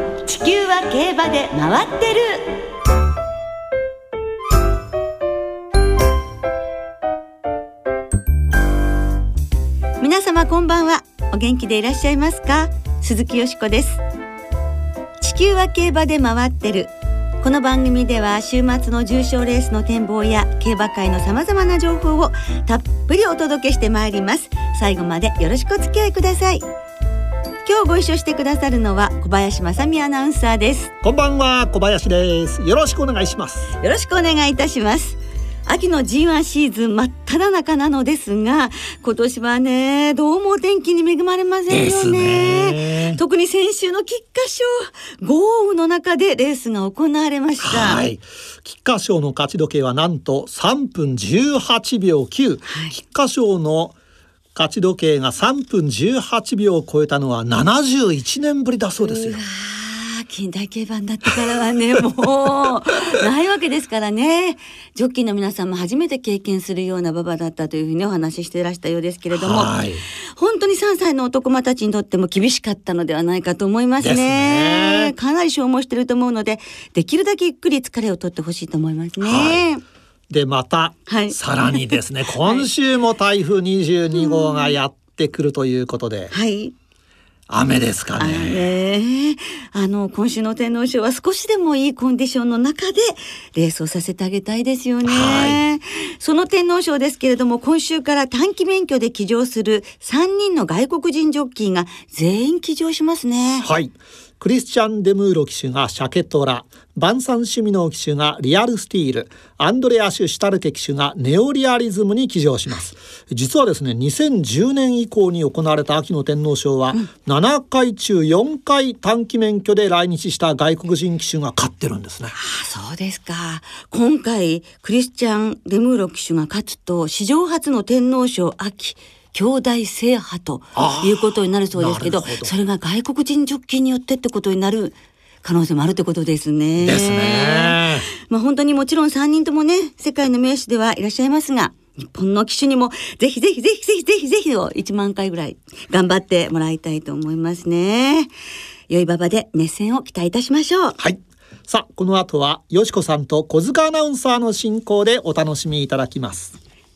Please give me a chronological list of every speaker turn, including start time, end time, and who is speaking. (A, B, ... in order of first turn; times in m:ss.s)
0:00.2-0:02.4 A
0:10.0-0:14.0 A
0:15.2-0:26.6 A
0:27.6-0:30.9 A
0:31.0-0:33.7 B
0:33.8-0:48.0 A
0:41.7-0:43.2 B
0:47.6-0:53.9 B
0:52.7-0:53.0 A
0:54.6-0:59.4 B
0:59.0-1:09.7 A
1:09.3-1:10.0 B
1:10.4-1:19.8 A
1:14.0-1:15.1 B
1:19.2-1:19.6 B
1:20.3-1:26.3 B
1:21.1-1:22.7 A
1:24.1-1:24.8 A
1:26.3-1:26.7 A
1:27.5-1:28.7 B
1:28.2-1:43.7 A
1:35.0-1:35.6 B
1:43.6-2:02.3 B
2:02.4-2:28.3 A
2:10.8-2:12.5 B
2:16.8-2:18.1 B
2:28.9-2:31.0 A
2:31.0-2:36.6 B